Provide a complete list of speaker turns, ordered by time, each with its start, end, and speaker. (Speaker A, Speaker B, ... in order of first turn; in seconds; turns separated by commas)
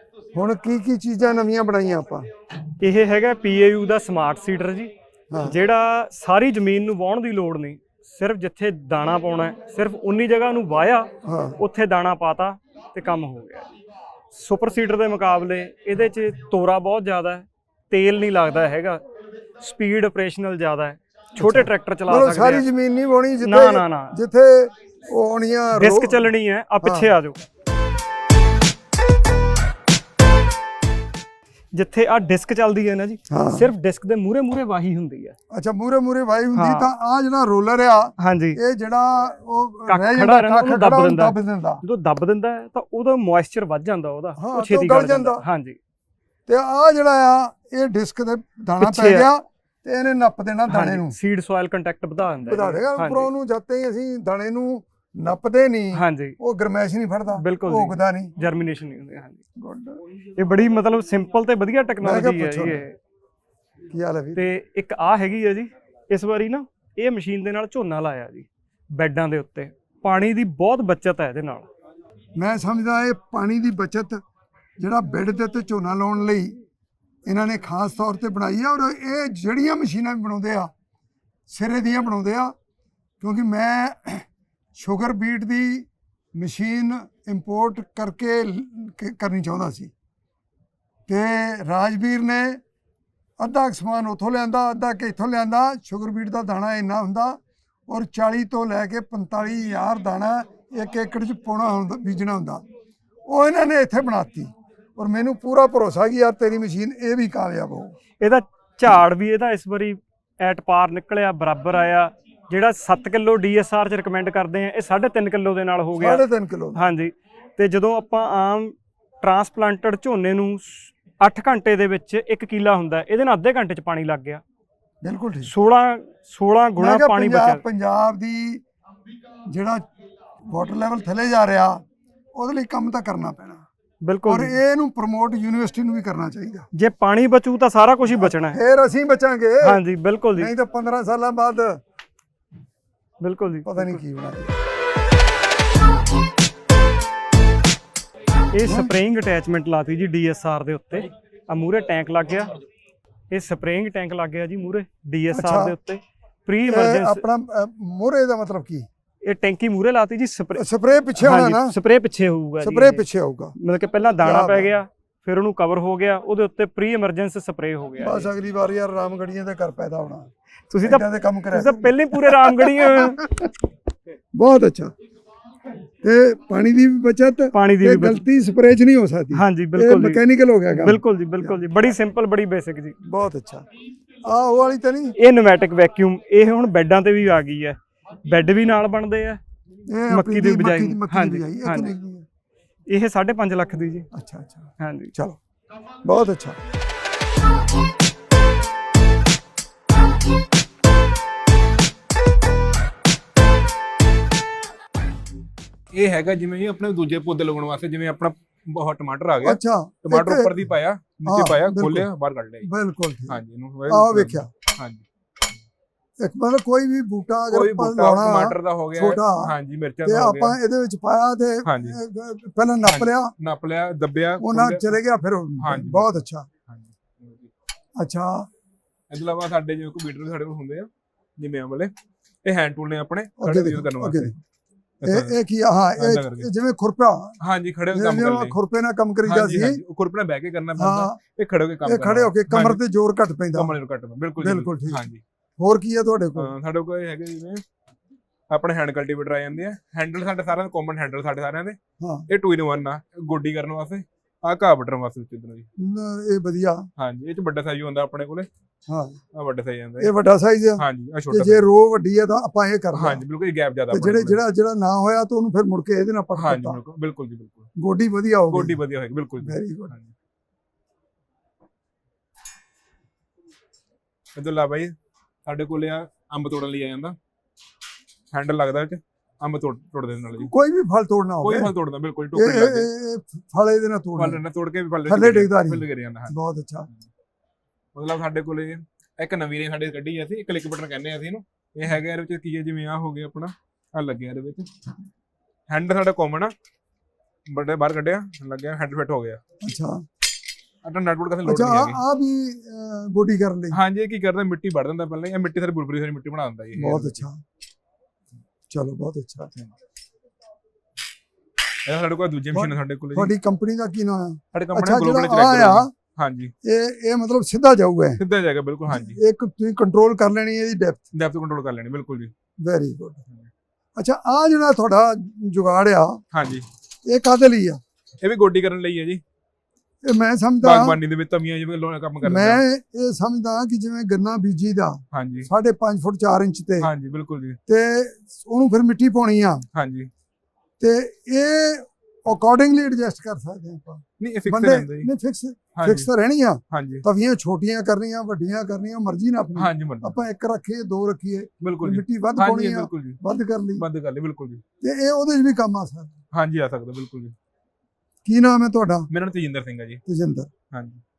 Speaker A: 0.3-2.2, Speaker B: 2.8-4.9, Speaker A: 5.3-5.5, Speaker B: 5.4-13.6, Speaker A: 11.2-11.6, Speaker B: 14.3-19.0, Speaker B: 19.6-22.6, Speaker A: 21.4-26.2, Speaker B: 23.4-24.1, Speaker B: 25.8-27.4, Speaker A: 26.8-27.1, Speaker B: 31.7-35.4, Speaker A: 33.3-33.7, Speaker A: 35.5-41.8, Speaker B: 36.5-36.9, Speaker B: 38.2-38.6, Speaker B: 39.9-45.8, Speaker A: 44.4-45.4, Speaker A: 46.5-51.1, Speaker B: 48.8-49.3, Speaker B: 50.7-53.3, Speaker A: 52.5-58.3, Speaker B: 55.9-56.4, Speaker B: 57.4-59.4, Speaker A: 59.6-60.0, Speaker B: 60.4-63.0, Speaker A: 62.0-62.8, Speaker A: 63.9-64.4, Speaker B: 64.3-71.7, Speaker A: 72.4-74.2, Speaker A: 74.8-76.5, Speaker A: 77.2-80.7, Speaker A: 81.5-82.5, Speaker A: 83.2-89.9, Speaker A: 91.1-92.6, Speaker A: 93.4-102.6, Speaker A: 103.3-107.9, Speaker B: 108.2-116.2, Speaker A: 116.0-116.8, Speaker B: 116.7-124.4, Speaker A: 125.0-125.5, Speaker B: 125.5-127.6, Speaker A: 126.8-128.6, Speaker A: 129.5-129.8, Speaker A: 130.5-131.8, Speaker A: 132.3-133.6, Speaker B: 134.0-134.6, Speaker A: 134.2-136.7, Speaker B: 136.7-138.6, Speaker A: 138.1-139.8, Speaker B: 139.6-140.5, Speaker A: 140.4-141.8, Speaker B: 143.2-144.0, Speaker A: 143.7-144.5, Speaker B: 148.5-152.5, Speaker A: 148.7-148.9, Speaker B: 153.3-157.2, Speaker A: 155.3-155.8, Speaker A: 156.7-158.9, Speaker B: 159.2-160.6, Speaker A: 160.5-161.7, Speaker B: 161.2-163.0, Speaker A: 162.6-163.5, Speaker B: 163.6-168.3, Speaker A: 164.2-164.7, Speaker A: 168.0-170.3, Speaker B: 170.7-173.2, Speaker A: 170.8-173.5, Speaker A: 174.3-174.9, Speaker A: 176.0-181.6, Speaker B: 177.5-178.2, Speaker B: 179.3-180.2, Speaker B: 180.7-182.9, Speaker A: 183.0-183.6, Speaker A: 184.2-185.1, Speaker B: 185.2-189.4, Speaker A: 189.9-192.2, Speaker B: 190.1-191.9, Speaker B: 192.9-194.1, Speaker A: 194.1-195.4, Speaker B: 194.8-195.1, Speaker A: 196.0-196.6, Speaker C: 205.9-212.7, Speaker A: 209.4-210.7, Speaker A: 211.2-212.1, Speaker A: 212.6-214.5, Speaker C: 213.3-215.0, Speaker A: 216.2-219.5, Speaker C: 217.5-220.6, Speaker A: 220.0-223.3, Speaker C: 221.6-222.0, Speaker C: 222.8-224.9, Speaker A: 224.4-226.5, Speaker C: 225.6-226.2, Speaker C: 226.7-227.5, Speaker A: 228.0-228.5, Speaker C: 229.1-231.9, Speaker C: 232.4-234.3, Speaker A: 233.4-234.3, Speaker C: 235.0-235.3, Speaker A: 235.0-237.3, Speaker C: 236.0-236.5, Speaker C: 237.4-238.6, Speaker A: 237.9-239.8, Speaker C: 239.2-242.8, Speaker A: 240.8-241.2, Speaker A: 241.8-243.7, Speaker C: 243.5-245.2, Speaker A: 244.4-245.1, Speaker A: 245.6-246.5, Speaker C: 246.4-247.6, Speaker C: 248.5-251.8, Speaker A: 252.0-252.2, Speaker C: 252.3-255.7, Speaker A: 255.8-256.9, Speaker C: 257.0-258.5, Speaker A: 258.9-259.2, Speaker C: 259.3-260.1, Speaker A: 260.0-263.2, Speaker C: 260.8-261.6, Speaker C: 262.9-264.4, Speaker A: 263.9-266.8, Speaker C: 266.4-267.7, Speaker A: 267.8-268.8, Speaker C: 268.5-270.1, Speaker A: 269.4-269.9, Speaker C: 274.3-274.9, Speaker C: 275.4-277.1, Speaker C: 278.3-280.5, Speaker A: 280.4-281.7, Speaker C: 281.4-282.9, Speaker A: 282.3-284.4, Speaker C: 284.2-286.3, Speaker A: 285.1-286.9, Speaker C: 287.9-294.7, Speaker C: 295.7-296.5, Speaker C: 297.5-299.4, Speaker A: 299.6-300.0, Speaker C: 300.8-302.0, Speaker A: 301.4-303.8, Speaker C: 303.7-307.3, Speaker A: 306.8-307.4, Speaker A: 308.7-309.5, Speaker C: 311.9-313.3, Speaker A: 312.5-315.9, Speaker C: 314.5-316.5, Speaker A: 316.6-318.2, Speaker C: 318.2-319.2, Speaker A: 318.9-321.1, Speaker C: 321.1-322.3, Speaker A: 322.6-323.2, Speaker A: 323.9-326.2, Speaker C: 326.3-326.6, Speaker A: 327.1-327.8, Speaker C: 328.2-329.2, Speaker A: 330.0-331.0, Speaker C: 330.6-332.6, Speaker A: 332.2-336.9, Speaker C: 335.1-335.5, Speaker C: 336.8-337.6, Speaker A: 337.7-339.6, Speaker C: 339.7-340.1, Speaker A: 340.8-353.8, Speaker C: 344.2-345.1, Speaker C: 345.7-346.1, Speaker C: 346.7-347.0, Speaker C: 349.6-350.2, Speaker C: 351.6-353.2, Speaker C: 353.8-354.6, Speaker A: 354.8-356.1, Speaker C: 356.3-357.3, Speaker A: 358.2-359.1, Speaker C: 359.1-360.0, Speaker A: 360.1-360.5, Speaker C: 360.7-361.0